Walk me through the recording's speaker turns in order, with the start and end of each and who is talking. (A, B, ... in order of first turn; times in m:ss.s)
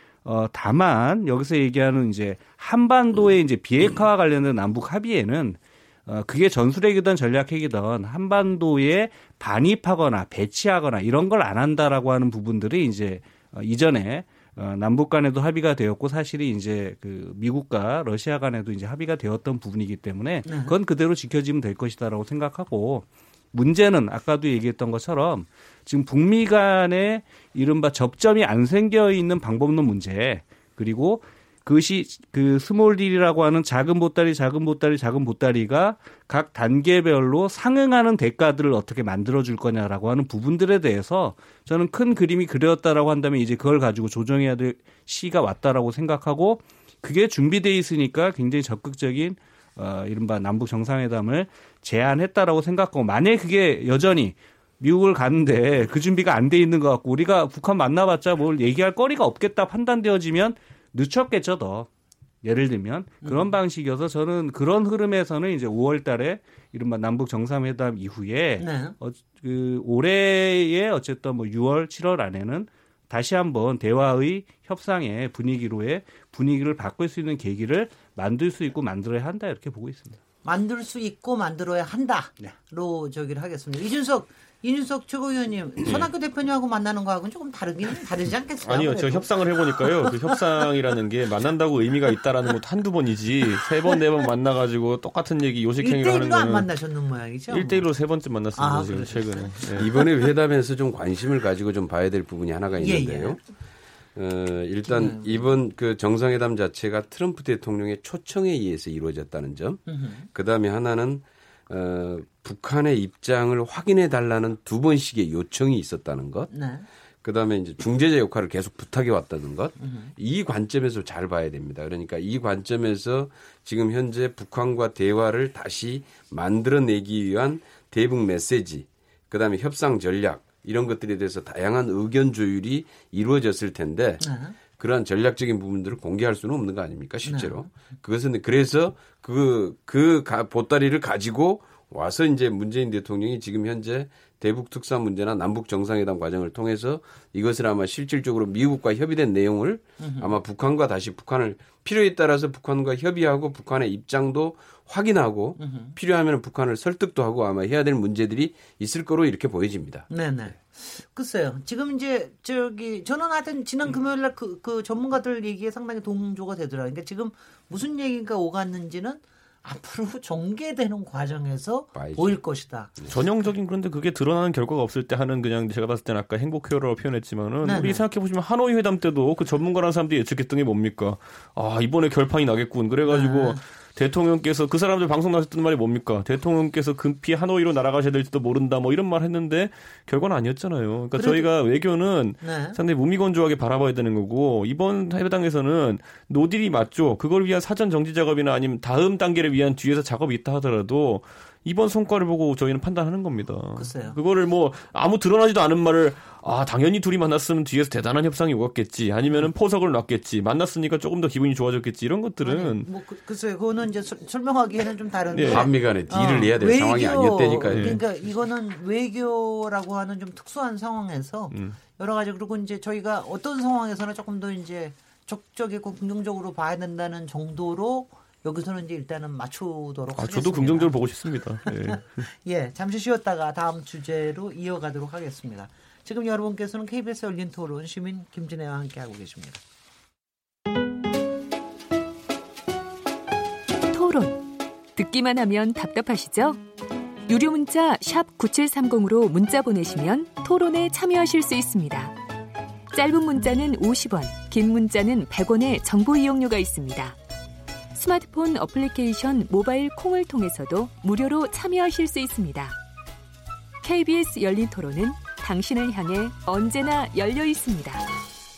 0:00.2-1:01.9 A
0:20.4-0:20.8 B
1:02.4-1:20.2 A
1:03.2-1:03.6 B
1:08.6-1:09.0 B
1:20.4-1:30.4 B
1:25.8-1:26.1 C
1:28.6-1:36.7 C
1:35.8-1:37.8 B
1:37.5-1:39.9 C
1:38.6-1:40.1 B
1:39.8-1:43.4 D
1:42.8-1:43.4 B
1:44.1-1:56.5 D
1:44.8-1:45.5 B
1:49.9-1:50.3 B
1:56.5-1:56.9 B
1:57.2-2:40.1 D
1:59.8-2:00.1 B
2:14.2-2:14.6 B
2:17.2-2:17.5 B
2:30.0-2:30.3 B
2:35.6-2:35.9 B
2:40.1-2:53.0 B
2:51.9-2:52.4 D
2:53.1-3:32.9 C
2:57.6-2:58.0 B
3:03.1-3:03.6 B
3:11.2-3:11.5 B
3:12.4-3:12.8 B
3:23.7-3:24.2 B
3:32.4-3:51.0 B
3:35.3-3:35.6 C
3:35.5-3:38.0 D
3:37.7-3:38.0 C
3:41.5-3:41.8 C
3:50.2-3:52.3 C
3:51.6-3:59.6 B
4:03.9-4:06.6 E
4:07.3-4:12.2 E
4:12.9-4:17.2 E
4:17.9-4:22.8 E
4:23.8-4:28.1 E